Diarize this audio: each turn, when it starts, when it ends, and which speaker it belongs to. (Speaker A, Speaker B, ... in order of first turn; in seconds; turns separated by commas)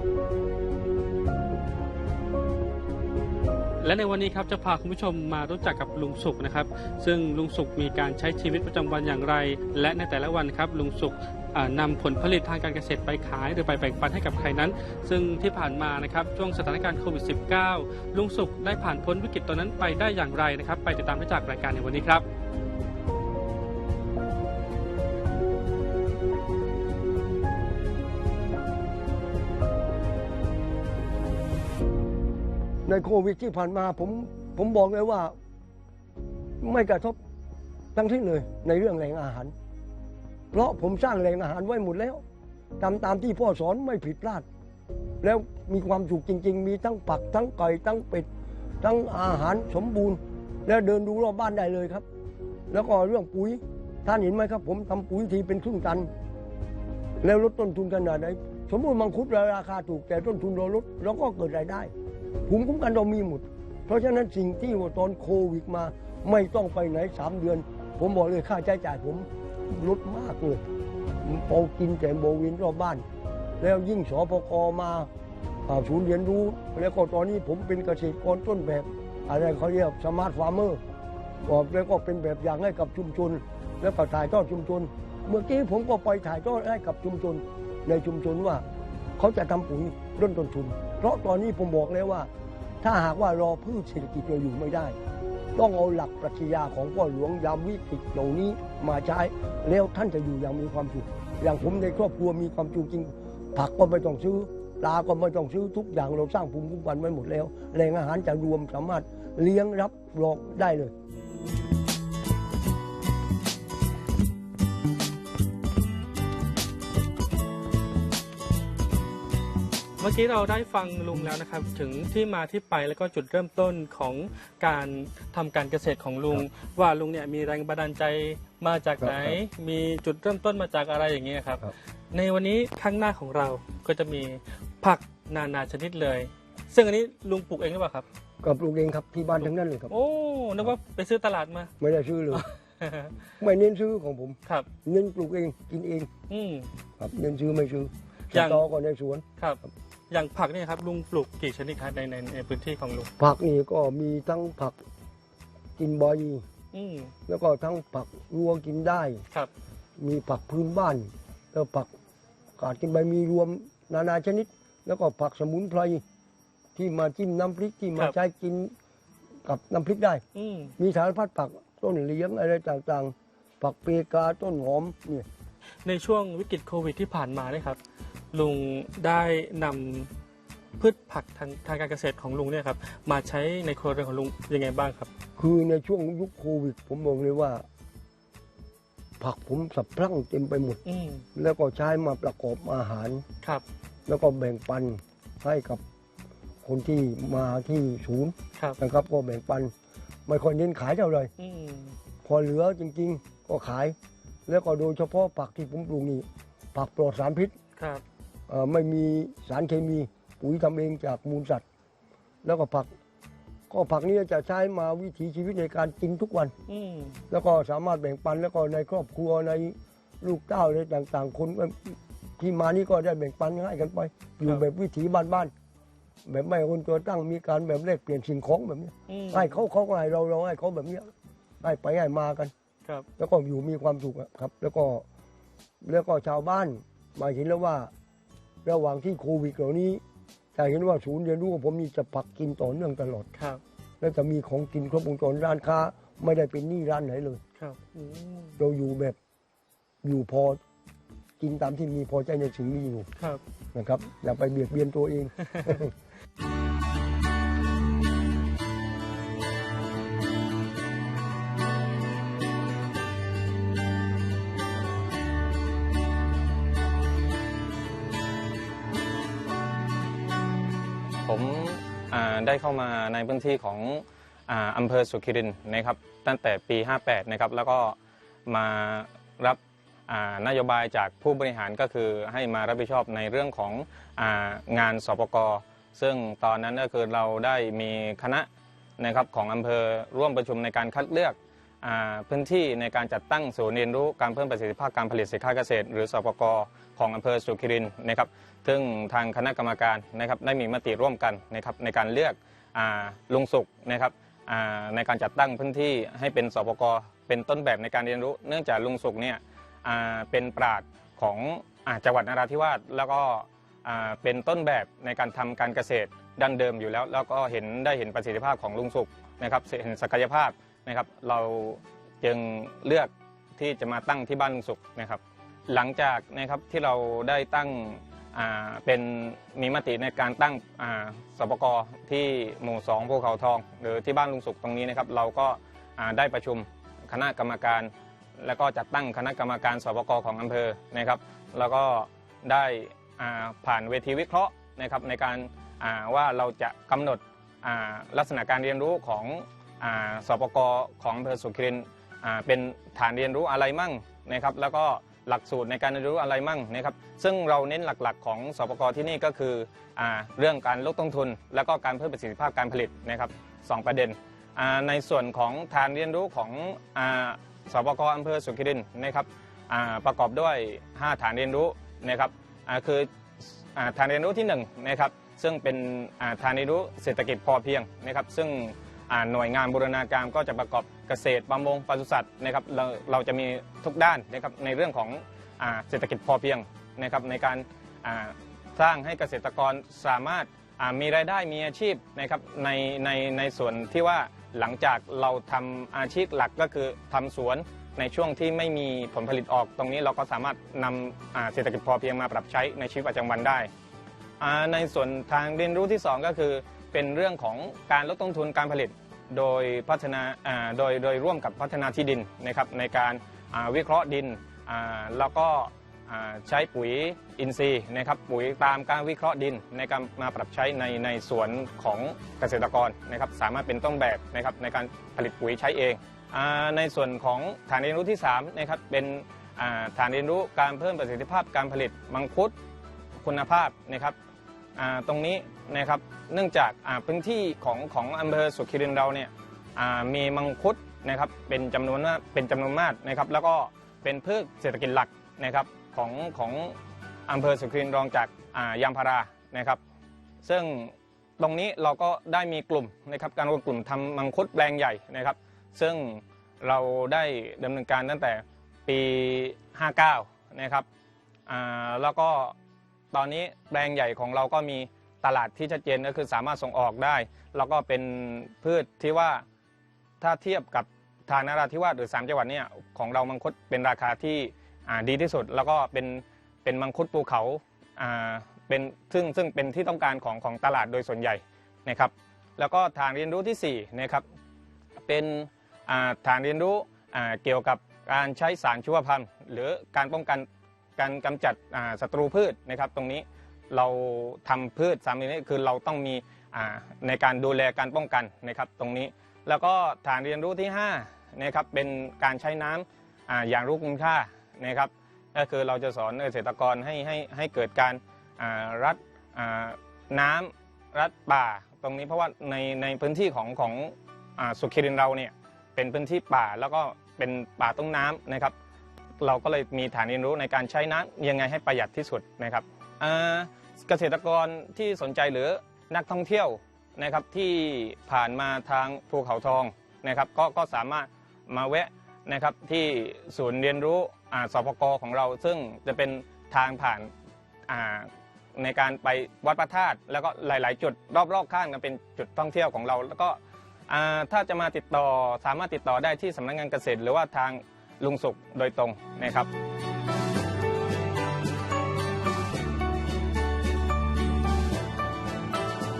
Speaker A: 3.8-22.2, Speaker B: 32.8-35.3, Speaker B: 36.6-37.2, Speaker B: 37.9-39.5, Speaker B: 40.5-42.2, Speaker B: 42.8-44.5, Speaker B: 45.2-48.3, Speaker B: 48.8-52.0, Speaker B: 52.7-56.1, Speaker B: 57.2-61.9, Speaker B: 62.5-70.6, Speaker B: 71.2-73.0, Speaker B: 73.6-75.1, Speaker B: 75.7-80.8, Speaker B: 81.4-88.6, Speaker B: 89.2-92.3, Speaker B: 92.8-95.0, Speaker B: 95.5-110.9, Speaker A: 120.0-138.0, Speaker B: 129.0-129.4, Speaker B: 138.4-139.9, Speaker A: 139.9-141.7, Speaker B: 141.8-142.4, Speaker A: 142.3-143.1, Speaker B: 143.4-146.1, Speaker A: 146.3-146.7, Speaker B: 147.0-149.2, Speaker A: 148.3-148.6, Speaker A: 149.4-153.1, Speaker B: 153.2-154.8, Speaker B: 155.8-156.4, Speaker A: 156.7-157.1, Speaker B: 157.3-159.2, Speaker B: 160.0-161.9, Speaker B: 162.6-166.0, Speaker B: 166.8-168.7, Speaker B: 169.4-170.2, Speaker A: 170.3-170.7, Speaker B: 170.8-175.3, Speaker A: 175.8-177.8, Speaker A: 178.3-180.1, Speaker A: 180.8-185.1, Speaker B: 185.4-187.7, Speaker B: 189.2-190.8, Speaker A: 190.8-191.2, Speaker B: 191.3-193.2, Speaker B: 194.1-195.8, Speaker B: 196.6-199.7, Speaker B: 200.3-201.3, Speaker A: 201.4-201.9, Speaker B: 202.2-203.9, Speaker B: 204.5-207.6, Speaker A: 207.8-208.0, Speaker B: 208.5-211.6, Speaker B: 212.4-212.9, Speaker B: 213.7-216.5, Speaker A: 216.7-217.2, Speaker B: 217.3-225.5, Speaker B: 226.2-232.5, Speaker A: 229.1-229.6, Speaker B: 233.2-235.0, Speaker B: 235.8-237.9, Speaker B: 238.6-240.0, Speaker B: 240.5-243.3, Speaker B: 244.0-247.4, Speaker A: 247.6-248.6, Speaker B: 248.6-249.2, Speaker B: 250.0-250.6, Speaker B: 251.4-253.1, Speaker B: 253.7-255.9, Speaker C: 271.2-277.9, Speaker C: 278.5-288.5, Speaker C: 289.0-373.1, Speaker C: 373.7-403.7, Speaker C: 404.4-432.5, Speaker C: 433.2-434.1, Speaker C: 434.8-446.7, Speaker C: 447.3-449.8, Speaker C: 450.4-460.8, Speaker C: 461.5-462.5, Speaker C: 463.1-469.4, Speaker C: 470.2-484.2, Speaker C: 485.1-518.5, Speaker C: 519.2-537.1, Speaker C: 537.7-543.4, Speaker C: 543.9-549.5